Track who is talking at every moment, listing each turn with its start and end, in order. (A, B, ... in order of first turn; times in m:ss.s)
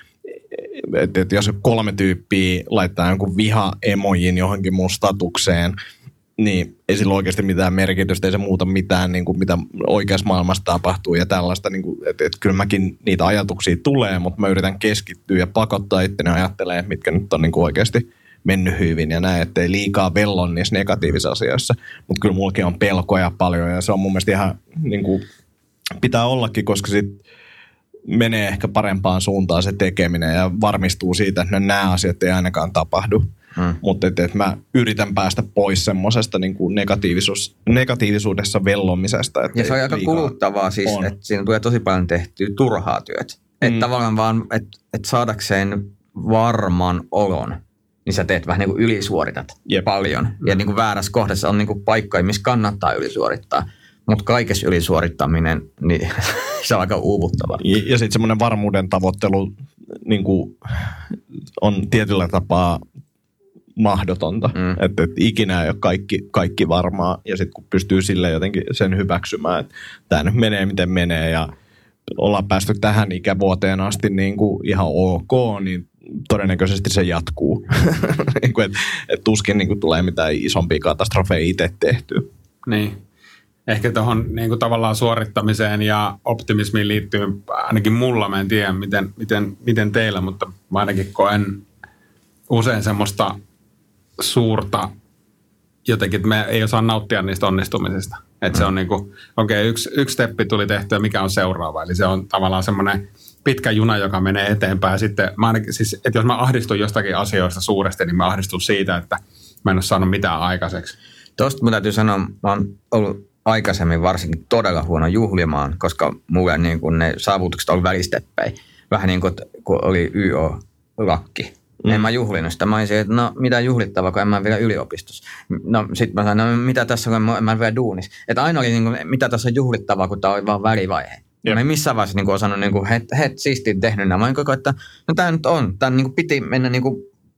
0:00.5-0:05.8 A
0:06.4-0:25.2 A
0:26.0-0:27.2 A
0:28.1-0:33.3 A
0:33.8-0:41.1 A
0:39.5-0:57.6 B
0:57.6-1:02.8 A
1:03.8-1:11.5 A
1:04.5-1:04.8 B
1:12.1-1:22.3 A
1:22.6-1:23.0 C
1:23.7-1:31.6 C
1:32.5-1:33.4 C
1:34.2-1:34.9 C
1:35.8-1:50.9 C
1:51.4-2:17.1 B